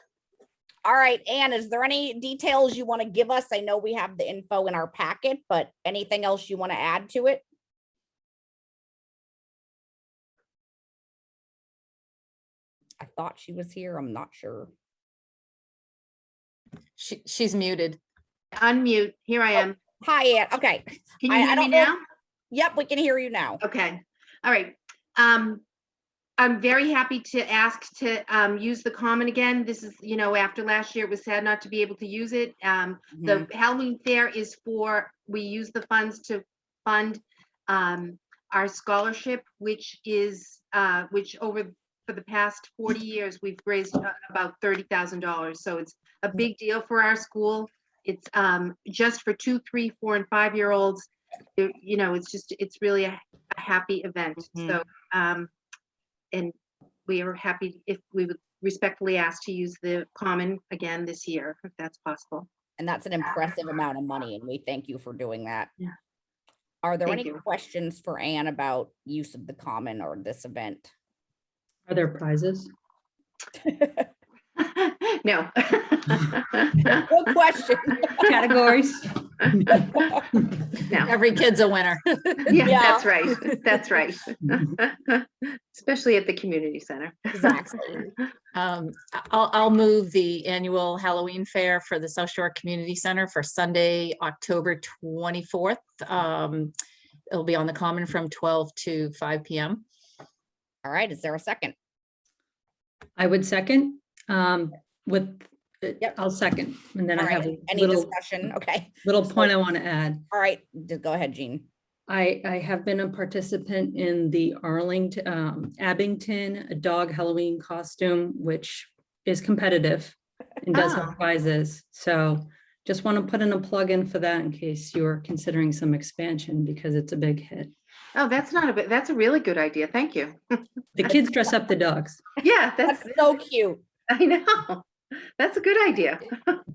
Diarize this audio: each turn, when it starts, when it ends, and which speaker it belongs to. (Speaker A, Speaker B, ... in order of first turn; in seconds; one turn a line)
Speaker A: 0.8-7.4
Speaker A: 13.0-14.7
Speaker B: 17.0-18.0
Speaker C: 18.5-19.8
Speaker A: 20.0-21.9
Speaker C: 21.2-22.0
Speaker A: 22.5-23.6
Speaker C: 23.6-25.6
Speaker C: 26.4-55.5
Speaker A: 33.2-33.4
Speaker C: 57.1-62.5
Speaker A: 62.8-65.7
Speaker A: 66.8-70.9
Speaker C: 67.1-67.3
Speaker D: 71.9-72.7
Speaker A: 73.7-74.0
Speaker C: 74.6-77.0
Speaker A: 76.8-78.3
Speaker D: 78.2-79.8
Speaker C: 79.4-80.2
Speaker C: 80.8-81.1
Speaker B: 81.0-82.7
Speaker C: 82.5-87.5
Speaker A: 82.6-83.1
Speaker A: 87.3-88.1
Speaker B: 88.5-96.7
Speaker B: 97.3-99.8
Speaker A: 100.8-101.7
Speaker D: 103.2-108.1
Speaker A: 107.2-109.5
Speaker D: 109.0-110.2
Speaker A: 110.3-111.7
Speaker D: 112.1-127.7
Speaker C: 120.7-121.1
Speaker C: 128.1-130.7
Speaker D: 130.9-132.2
Speaker C: 132.4-133.3
Speaker A: 132.8-133.8
Speaker C: 134.1-136.6